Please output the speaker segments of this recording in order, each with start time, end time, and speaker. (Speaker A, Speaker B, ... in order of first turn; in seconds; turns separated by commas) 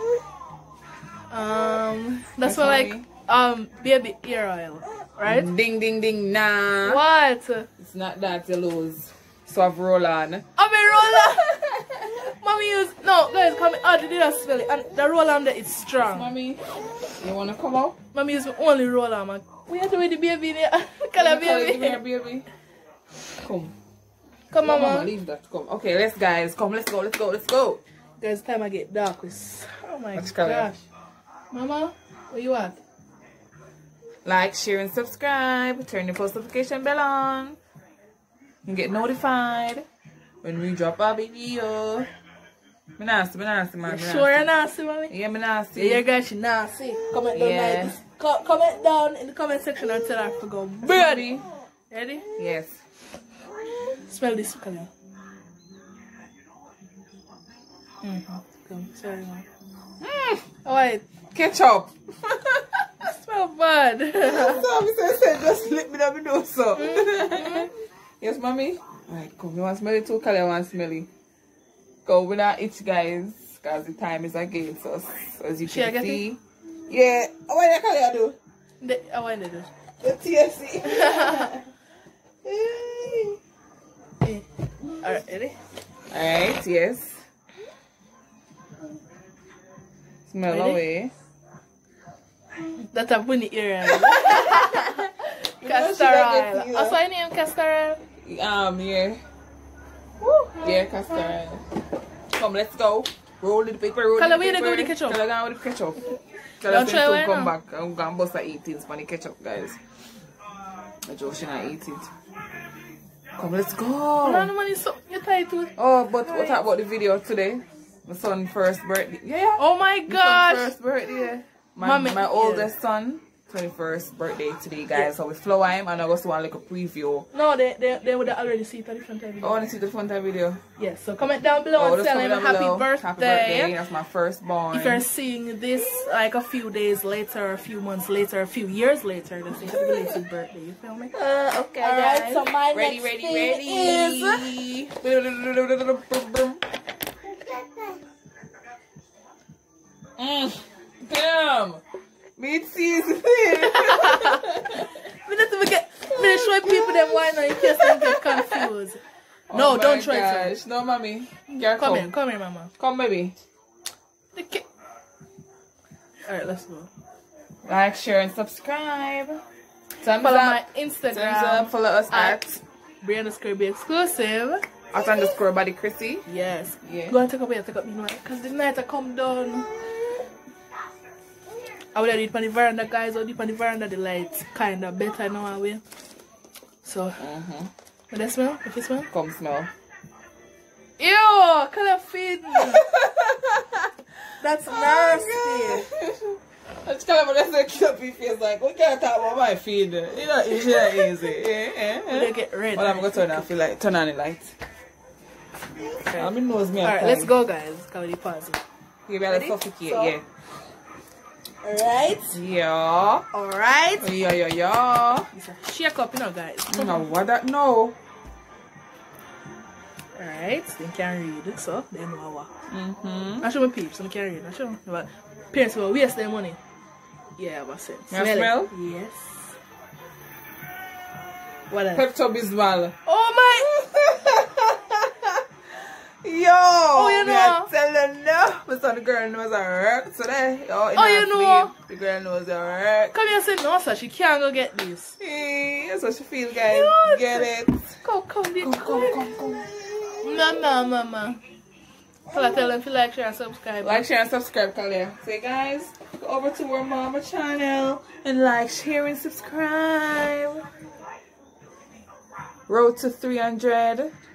Speaker A: 1.3-5.5, Speaker B: 2.4-3.1, Speaker B: 5.2-7.0, Speaker A: 6.8-7.7, Speaker B: 7.8-10.4, Speaker A: 10.6-16.3, Speaker B: 11.2-12.2, Speaker B: 16.0-16.6, Speaker B: 17.2-18.0, Speaker A: 18.1-22.0, Speaker B: 21.2-22.5, Speaker B: 23.4-23.7, Speaker A: 24.5-25.1, Speaker B: 24.6-27.8, Speaker A: 28.2-30.8, Speaker B: 30.1-30.7, Speaker A: 31.5-32.8, Speaker B: 34.2-37.6, Speaker B: 38.7-39.9, Speaker B: 40.4-42.1, Speaker B: 43.0-44.5, Speaker A: 43.9-45.1, Speaker B: 45.1-46.0, Speaker A: 45.7-51.4, Speaker B: 47.3-48.0, Speaker B: 50.8-51.5, Speaker A: 51.9-52.2, Speaker B: 52.4-52.8, Speaker A: 54.0-54.9, Speaker A: 58.0-59.5, Speaker B: 60.0-60.5, Speaker A: 60.6-61.0, Speaker B: 61.3-62.9, Speaker A: 63.0-64.7, Speaker B: 64.2-71.1, Speaker A: 66.7-67.7, Speaker B: 72.0-78.4, Speaker A: 75.7-76.2, Speaker A: 78.8-79.7, Speaker B: 80.0-81.6, Speaker A: 80.8-81.5, Speaker B: 82.4-83.4, Speaker A: 85.0-85.6, Speaker B: 86.1-87.2, Speaker B: 90.3-91.1, Speaker A: 90.5-90.8, Speaker A: 92.9-98.0, Speaker B: 94.0-95.0, Speaker B: 95.6-97.0, Speaker B: 98.2-99.2, Speaker A: 100.2-100.8, Speaker B: 100.6-101.7, Speaker B: 102.3-109.8, Speaker A: 104.2-105.2, Speaker A: 106.7-107.5, Speaker B: 111.1-112.1, Speaker B: 113.4-114.5, Speaker A: 114.2-116.6, Speaker B: 115.8-127.3, Speaker A: 119.6-120.7, Speaker A: 121.8-122.7, Speaker A: 127.3-129.7, Speaker B: 129.4-130.6, Speaker A: 130.8-133.8, Speaker B: 131.8-135.1, Speaker A: 134.7-141.1, Speaker B: 139.6-140.1, Speaker B: 141.1-146.6, Speaker A: 141.8-144.5, Speaker B: 147.4-148.0, Speaker B: 150.2-151.8, Speaker B: 152.4-154.9, Speaker A: 153.7-154.4, Speaker A: 155.1-159.0, Speaker B: 156.1-158.7, Speaker B: 159.5-162.1, Speaker A: 159.5-160.5, Speaker A: 161.8-162.7, Speaker B: 162.8-163.3, Speaker A: 164.3-164.7, Speaker A: 166.3-166.9, Speaker B: 167.7-169.4, Speaker B: 170.0-172.6, Speaker A: 170.2-172.4, Speaker A: 173.0-174.6, Speaker B: 174.9-176.3, Speaker A: 176.3-179.7, Speaker B: 176.8-177.2, Speaker A: 181.9-185.8, Speaker A: 186.8-187.2, Speaker B: 187.2-187.7, Speaker A: 188.1-189.1, Speaker B: 189.1-189.7, Speaker A: 191.0-192.8, Speaker B: 192.6-193.9, Speaker A: 194.4-195.9, Speaker B: 194.7-204.6, Speaker A: 200.7-201.1, Speaker A: 202.1-203.5, Speaker A: 205.8-208.6, Speaker B: 206.1-207.3, Speaker B: 209.1-210.2, Speaker A: 209.3-210.2, Speaker A: 211.6-212.4, Speaker B: 212.3-213.3, Speaker A: 213.3-214.1, Speaker B: 214.0-215.3, Speaker A: 215.3-217.1, Speaker B: 216.7-218.0, Speaker A: 220.2-222.5, Speaker B: 222.7-223.5, Speaker A: 223.4-226.6, Speaker A: 227.4-229.5, Speaker B: 228.1-228.7, Speaker A: 231.7-232.1, Speaker B: 231.9-232.9, Speaker A: 233.1-233.7, Speaker B: 233.5-235.4, Speaker B: 236.2-243.2, Speaker A: 236.9-237.7, Speaker A: 241.0-241.7, Speaker A: 243.1-245.2, Speaker B: 245.2-247.9, Speaker A: 246.6-247.5, Speaker A: 248.0-249.3, Speaker B: 248.6-250.6, Speaker A: 250.2-251.4, Speaker B: 252.3-252.7, Speaker A: 252.3-254.0, Speaker B: 253.8-260.6, Speaker B: 262.7-264.1